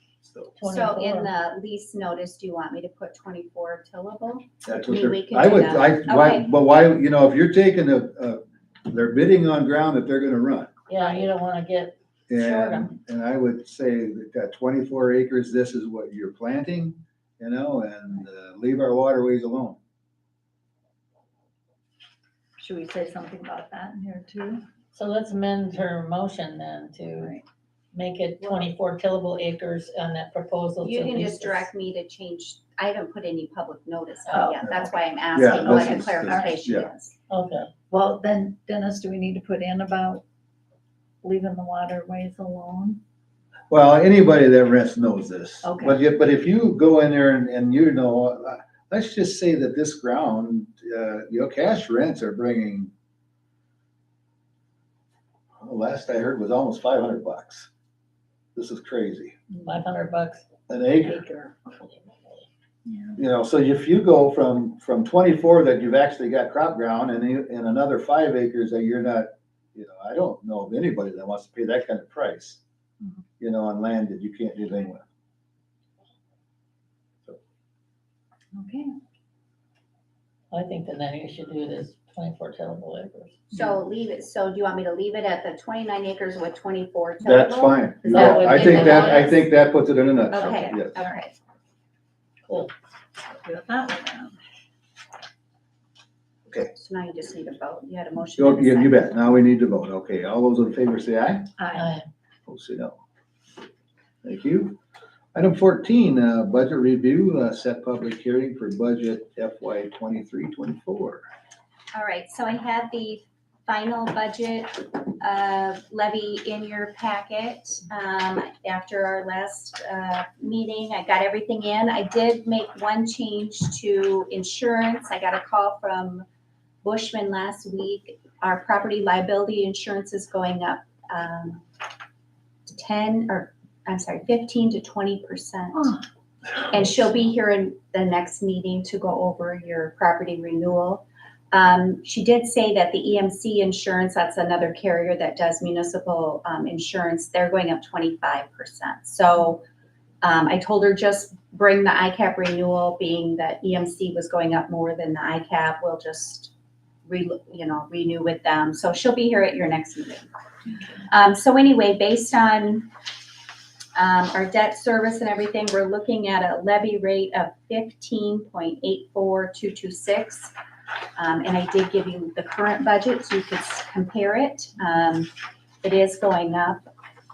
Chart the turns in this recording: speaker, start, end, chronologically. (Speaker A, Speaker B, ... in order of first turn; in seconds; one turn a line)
Speaker A: 0.2-0.5
Speaker B: 0.6-1.3
Speaker C: 0.7-6.5
Speaker A: 4.6-10.7
Speaker B: 10.9-12.9
Speaker A: 12.3-19.8
Speaker D: 22.6-24.6
Speaker B: 24.9-27.3
Speaker D: 27.2-27.4
Speaker B: 27.9-31.7
Speaker C: 30.8-37.1
Speaker D: 34.3-34.7
Speaker A: 35.3-36.9
Speaker D: 35.6-36.6
Speaker B: 37.3-37.7
Speaker D: 37.9-40.2
Speaker D: 41.2-43.0
Speaker A: 43.7-52.9
Speaker D: 45.6-46.0
Speaker A: 55.6-57.7
Speaker A: 58.5-59.3
Speaker B: 59.6-60.4
Speaker A: 60.7-61.2
Speaker B: 61.1-62.5
Speaker D: 62.9-63.1
Speaker A: 63.1-72.6
Speaker A: 73.4-75.0
Speaker D: 78.5-78.9
Speaker B: 80.5-83.4
Speaker C: 83.5-89.4
Speaker A: 87.2-91.0
Speaker B: 88.0-89.3
Speaker C: 90.3-91.3
Speaker B: 92.4-92.7
Speaker D: 93.4-94.4
Speaker C: 96.7-99.1
Speaker A: 98.4-101.5
Speaker D: 101.6-101.9
Speaker B: 101.7-102.0
Speaker A: 102.5-103.0
Speaker A: 104.2-104.8
Speaker A: 105.3-111.2
Speaker C: 111.9-126.2
Speaker C: 126.8-131.6
Speaker C: 132.7-136.0
Speaker C: 136.7-149.6
Speaker C: 150.2-156.5
Speaker C: 157.1-160.3
Speaker C: 161.1-162.9
Speaker C: 163.9-170.5
Speaker C: 171.2-175.3
Speaker C: 175.8-176.8